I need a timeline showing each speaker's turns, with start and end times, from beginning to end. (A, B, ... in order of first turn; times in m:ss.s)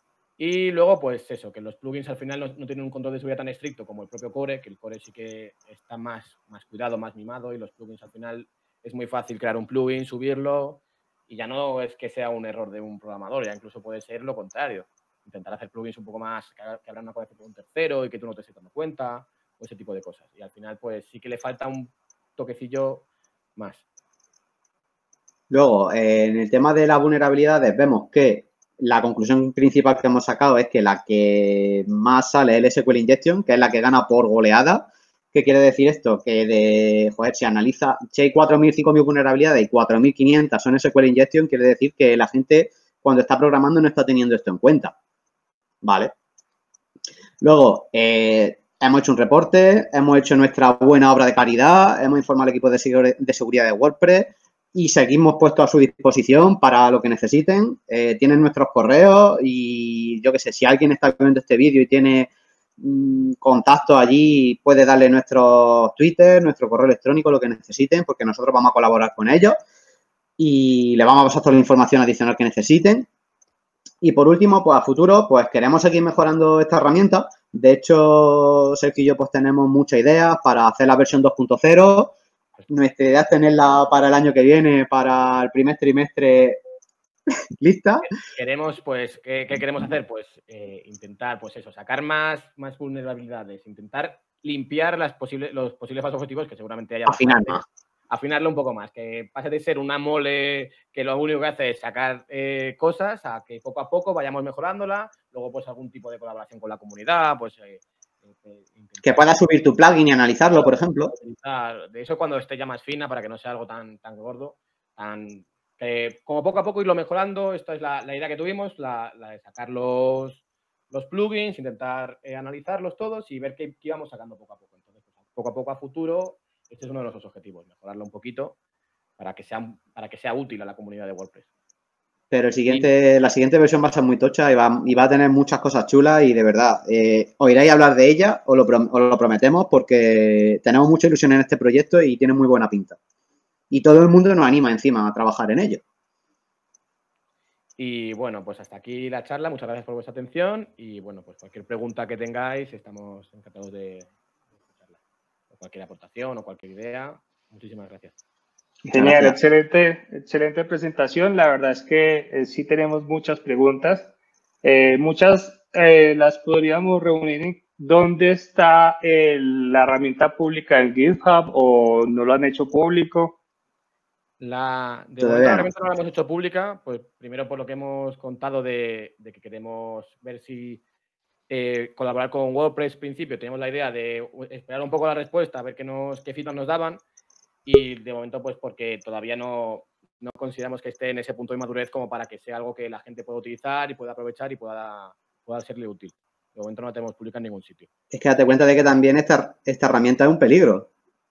0:00.4-0:23.0 A
0:23.6-0:23.8 A
0:25.5-0:44.9 B
0:45.8-0:46.1 B
0:47.4-1:09.6 B
1:10.4-1:13.1 B
1:14.0-1:22.1 B
1:22.7-1:26.6 B
1:27.6-1:28.1 B
1:28.0-1:49.5 A
1:37.1-1:37.6 B
1:49.0-1:51.1 B
1:50.5-2:08.6 A
2:09.2-2:11.4 A
2:12.3-2:23.0 B
2:23.7-2:25.8 B
2:27.8-2:34.1 A
2:35.5-2:38.2 A
2:38.9-2:44.1 C
2:38.9-2:39.4 B
2:44.6-2:53.4 C
2:54.4-3:00.8 A
2:55.2-2:55.7 B
3:01.5-3:07.0 A
3:07.7-3:17.9 A
3:18.1-3:20.9 B